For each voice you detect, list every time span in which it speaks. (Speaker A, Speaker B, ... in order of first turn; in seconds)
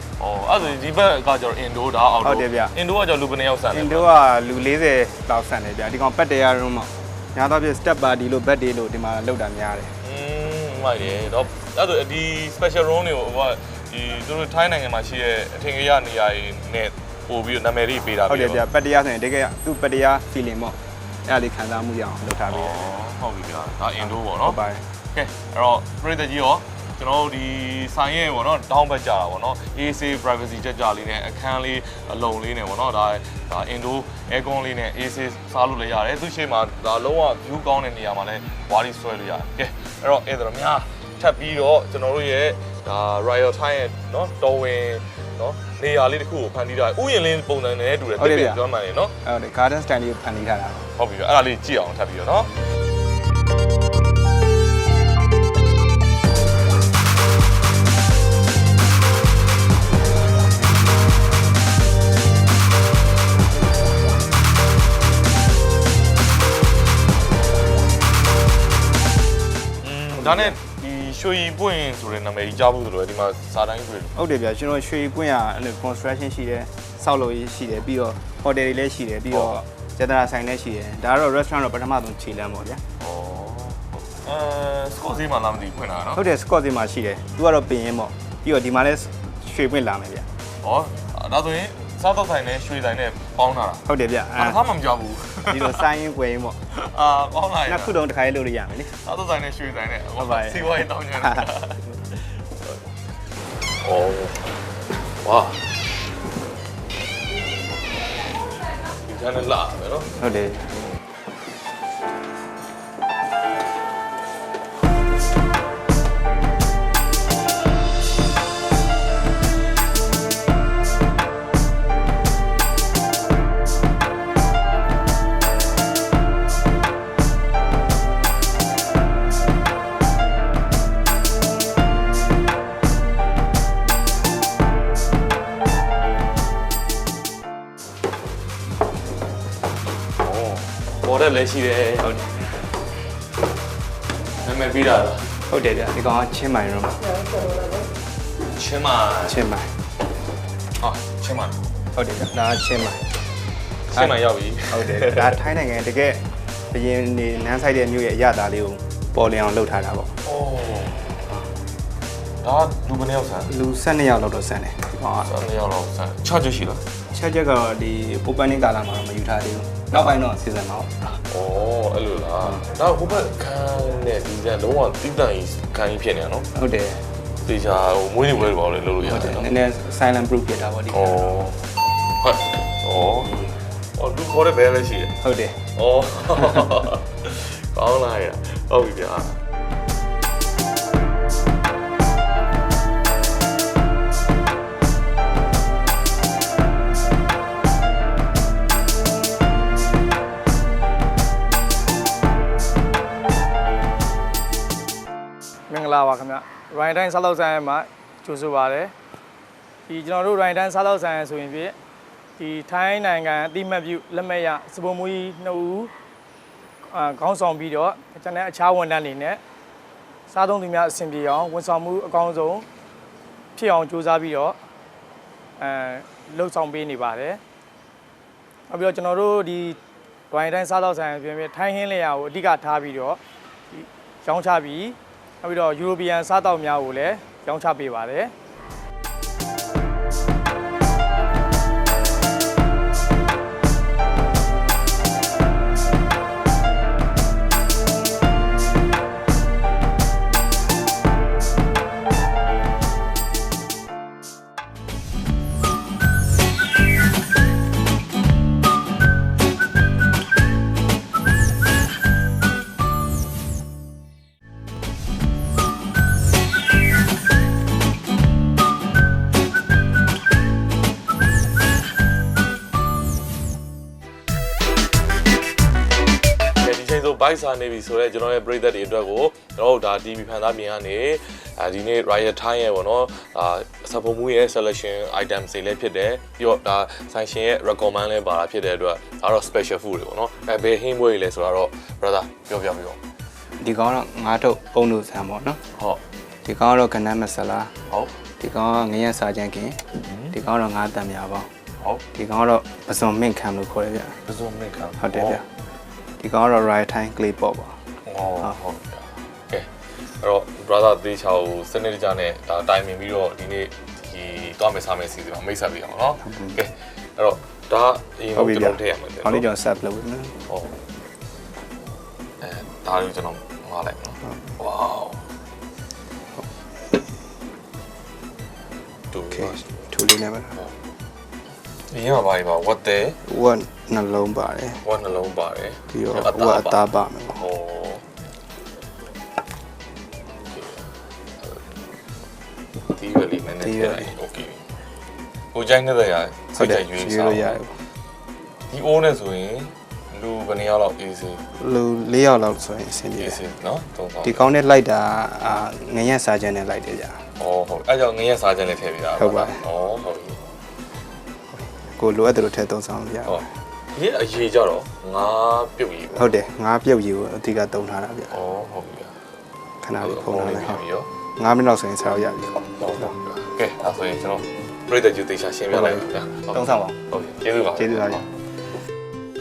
Speaker A: 0.2-4.1, 10.0-18.6, 22.5-24.6, 25.1-49.1, 50.9-52.5, 69.8-74.1, 83.0-86.2, 90.6-95.8, 96.7-97.9, 99.0-102.4, 103.8-104.5, 105.2-105.7, 109.0-110.1, 140.2-142.2, 144.4-145.3, 148.5-149.4, 150.8-151.6, 153.9-155.4, 160.2-161.1, 162.4-163.5, 165.2-166.8, 171.3-176.5, 177.4-179.5, 180.9-181.6, 182.2-185.2, 185.8-189.4, 276.6-293.0, 295.8-296.0, 300.0-300.4, 304.2-305.4, 308.1-309.7, 310.2-319.5, 322.4-325.2, 329.1-329.7, 331.9-333.2, 334.8-336.8, 337.3-338.0, 340.5-340.9, 342.9-344.6, 345.5-347.6, 348.7-351.4, 353.2-354.5, 357.4-360.4, 363.2-366.2, 368.3-369.1, 370.0-371.1, 372.8-378.3
Speaker B: 2.2-2.8, 3.7-9.9, 18.3-22.8, 24.0-24.8, 48.2-48.6, 49.2-50.9, 70.2-70.6, 74.2-82.8, 86.1-90.2, 93.8-94.6, 95.5-96.6, 97.7-98.9, 100.2-101.5, 110.2-110.7, 145.5-147.1, 149.2-149.7, 151.9-153.0, 153.9-160.1, 163.5-165.3, 167.1-171.2, 176.5-177.0, 179.0-181.3, 185.2-185.6, 293.6-295.6, 296.4-297.7, 298.4-301.5, 302.1-304.1, 305.0-305.4, 306.2-307.8, 316.2-316.6, 318.4-320.4, 329.3-330.6, 333.3-334.8, 335.9-337.4, 343.6-344.1, 346.6-347.8, 351.6-353.4, 354.2-357.2, 359.2-359.6, 362.0-363.4, 366.1-368.4, 369.8-370.8, 371.4-373.1, 375.7-377.0, 377.8-378.2
Speaker C: 205.7-208.9, 209.9-211.8, 212.4-215.9, 216.9-219.4, 220.3-222.6, 223.6-224.6, 225.6-227.4, 228.7-229.8, 230.3-233.2, 233.7-238.3